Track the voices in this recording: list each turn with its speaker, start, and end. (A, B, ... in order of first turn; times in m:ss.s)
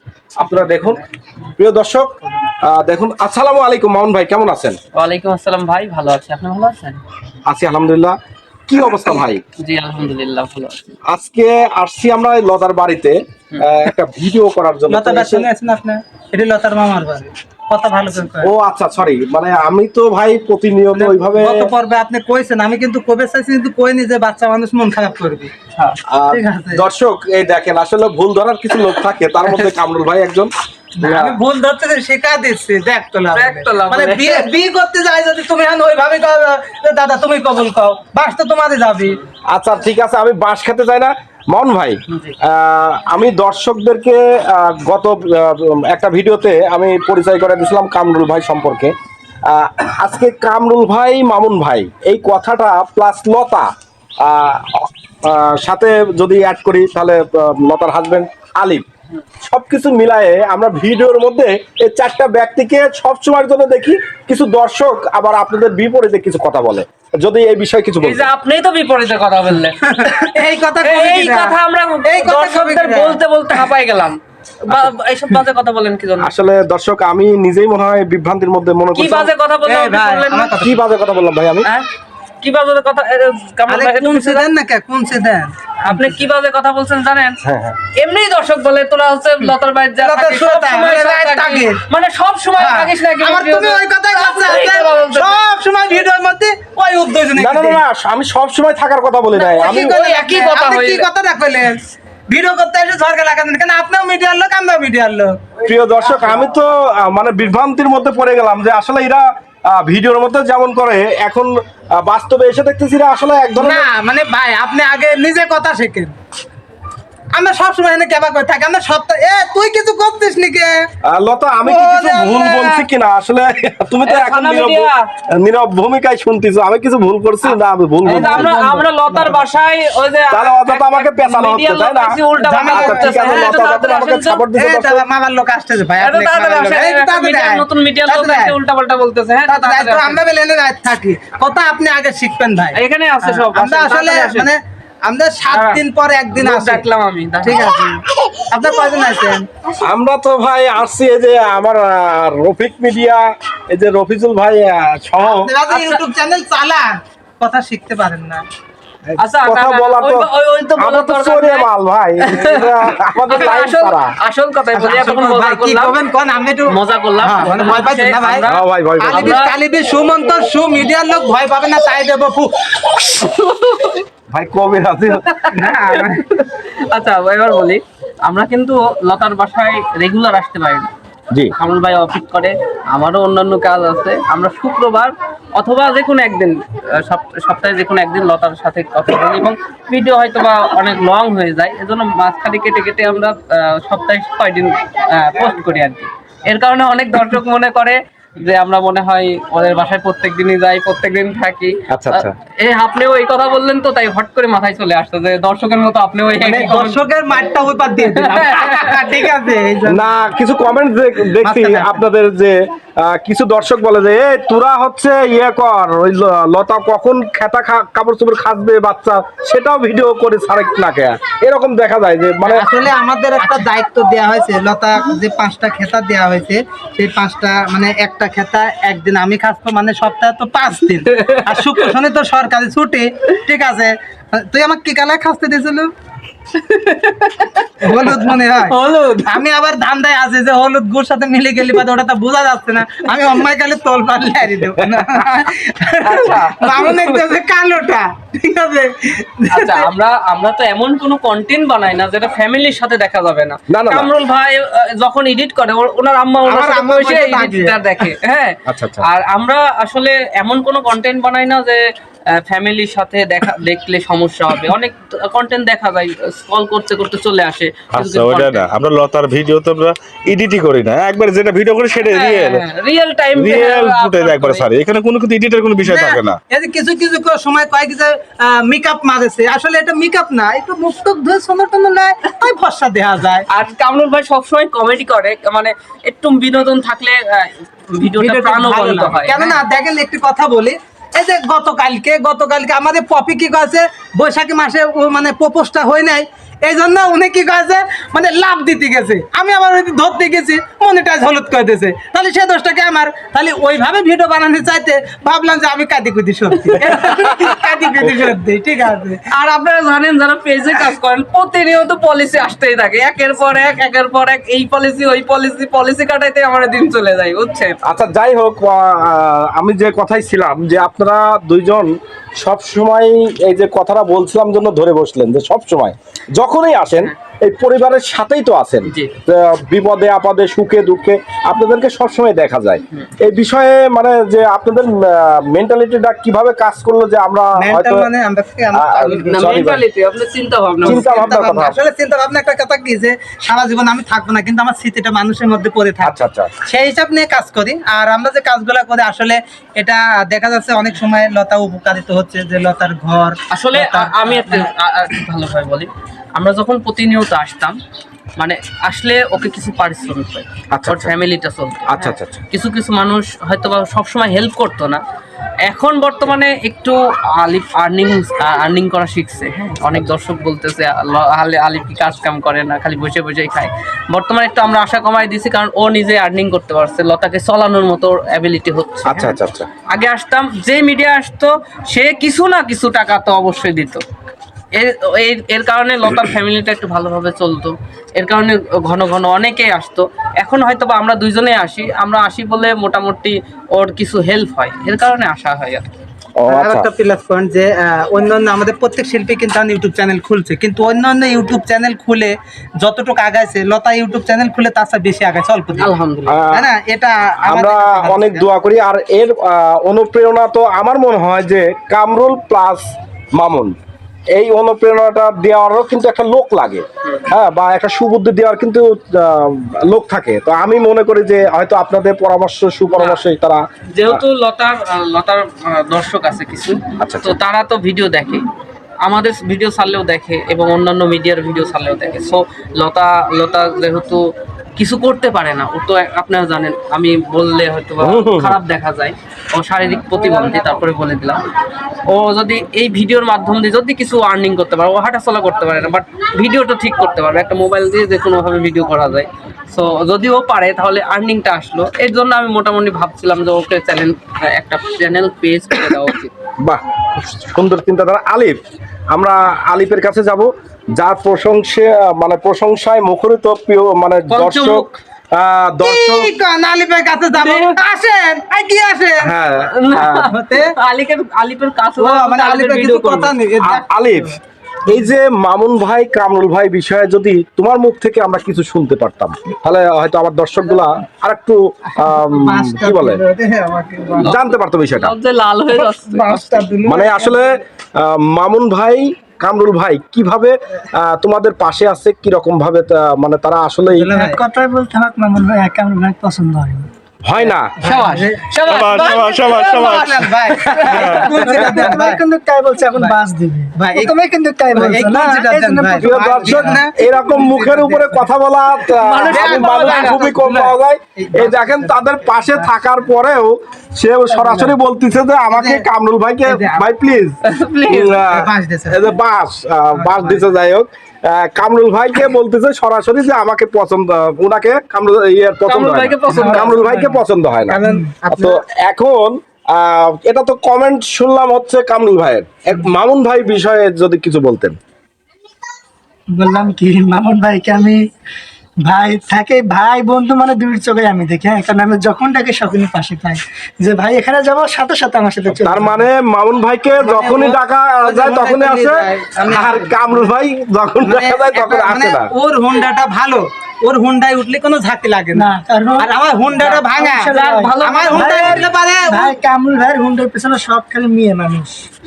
0:00.4-0:01.0 A
0:01.6-0:04.8 A
0:05.0-0:07.0 B
0:07.5-0:08.2 A
0:08.7-0:09.4 A
0:09.6-0:11.0 B
0:11.1-0:15.5 A
0:14.9-0:18.5 C
0:18.4-0:21.7 A
0:21.0-0:25.5 C
0:26.1-0:30.5 A
0:26.3-0:26.8 C
0:31.0-0:39.2 C
0:31.0-0:31.4 A
0:33.3-0:34.5 B
0:39.5-0:48.9 A
0:49.5-0:53.7 A
0:54.2-0:58.8 A
0:59.4-1:08.3 A
1:08.0-1:10.2 B
1:09.8-1:13.2 C
1:10.8-1:16.3 B
1:16.2-1:19.3 A
1:19.0-1:20.6 B
1:19.6-1:20.8 C
1:20.6-1:21.7 A
1:22.4-1:24.5 B
1:23.7-1:26.1 C
1:25.8-1:27.4 B
1:27.4-1:27.8 A
1:28.0-1:35.4 B
1:30.0-1:31.8 C
1:32.6-1:37.8 C
1:37.4-1:40.0 A
1:39.4-1:45.5 C
1:39.7-1:41.1 B
1:45.6-1:53.9 A
1:53.6-1:56.2 C
1:57.3-2:00.7 C
2:01.0-2:08.5 A
2:01.6-2:02.9 C
2:04.0-2:05.1 B
2:08.0-2:09.5 C
2:08.1-2:14.4 B
2:10.3-2:12.2 A
2:12.4-2:13.6 C
2:12.7-2:15.0 A
2:14.6-2:18.6 C
2:16.0-2:20.2 B
2:19.5-2:26.8 C
2:22.8-2:24.5 B
2:25.5-2:25.8 B
2:26.3-2:27.6 B
2:27.4-2:29.5 C
2:29.8-2:35.5 A
2:35.2-2:38.4 C
2:35.7-2:36.0 B
2:39.1-2:44.1 A
2:39.2-2:41.7 B
2:42.2-2:42.7 B
2:43.3-2:46.0 B
2:44.7-2:48.5 C
2:46.7-2:49.6 B
2:48.4-2:49.4 A
2:49.0-2:53.0 C
2:53.0-2:54.0 B
2:54.3-2:55.2 A
2:55.2-3:00.9 B
2:55.5-2:56.2 C
3:01.5-3:27.0 B
3:21.9-3:22.3 A
3:26.4-3:30.1 C
3:28.2-3:29.0 B
3:29.9-3:42.7 A
3:31.4-3:32.0 C
3:42.5-3:55.9 C
3:50.9-3:51.9 B
3:56.5-3:59.4 B
3:57.8-4:09.9 C
4:06.0-4:07.2 B
4:09.5-4:21.8 B
4:13.7-4:14.1 A
4:16.5-4:17.8 C
4:18.7-4:19.1 A
4:22.3-4:28.7 B
4:27.9-4:32.6 D
4:32.0-4:34.6 B
4:33.4-4:36.4 D
4:35.8-4:43.5 C
4:43.5-4:49.6 B
4:48.0-5:09.3 C
5:06.8-5:07.3 B
5:09.3-5:17.8 B
5:17.8-5:38.1 A
5:28.9-5:29.2 B
5:37.6-5:39.5 C
5:38.7-5:39.8 A
5:39.2-5:41.1 B
5:40.8-5:41.8 A
5:40.8-5:46.1 C
5:46.0-5:46.5 A
5:46.6-5:54.7 C
5:53.5-5:57.8 B
5:58.4-6:05.0 B
6:00.7-6:01.1 A
6:01.9-6:02.4 A
6:05.6-6:19.4 B
6:09.7-6:10.1 A
6:19.0-6:19.7 A
6:19.9-6:24.0 B
6:24.7-6:35.9 B
6:36.4-6:36.9 A
6:36.5-6:45.9 C
6:45.8-6:46.5 B
6:46.3-6:46.6 A
6:46.5-6:48.5 C
6:47.4-6:53.8 A
6:54.3-7:04.2 A
7:02.9-7:03.2 B
7:03.9-7:08.4 B
7:07.0-7:07.4 A
7:09.0-7:14.2 B
7:14.8-7:21.4 B
7:18.0-7:18.6 A
7:22.1-7:36.3 B
7:36.6-7:38.6 A
7:39.1-7:46.3 A
7:44.3-7:45.0 B
7:45.8-7:49.3 C
7:47.4-7:47.8 B
7:49.2-7:50.3 A
7:49.7-7:53.3 B
7:50.3-7:50.7 C
7:52.0-7:54.4 C
7:53.6-7:54.3 A
7:54.9-8:03.2 A
8:02.0-8:04.4 C
8:04.2-8:06.5 B
8:04.2-8:05.1 A
8:05.8-8:07.5 C
8:06.8-8:14.2 A
8:13.9-8:14.4 C
8:14.1-8:16.9 E
8:17.2-8:17.8 A
8:17.8-8:22.2 C
8:17.8-8:21.9 B
8:18.7-8:20.3 D
8:20.8-8:26.8 E
8:21.0-8:21.8 D
8:23.8-8:24.2 C
8:24.7-8:28.2 C
8:26.0-8:37.4 A
8:29.0-8:30.2 B
8:29.3-8:32.7 C
8:34.4-8:34.7 C
8:35.5-8:35.8 C
8:36.5-8:36.9 C
8:37.4-8:38.2 B
8:37.9-8:47.8 A
8:38.1-8:39.1 C
8:40.0-8:40.5 C
8:45.7-8:46.8 B
8:46.3-8:47.2 E
8:47.7-8:48.6 C
8:48.3-8:54.8 A
8:56.3-8:58.0 E
8:58.8-9:06.0 E
9:05.5-9:12.3 A
9:07.0-9:10.3 C
9:11.0-9:19.4 C
9:15.3-9:21.9 E
9:17.3-9:18.6 B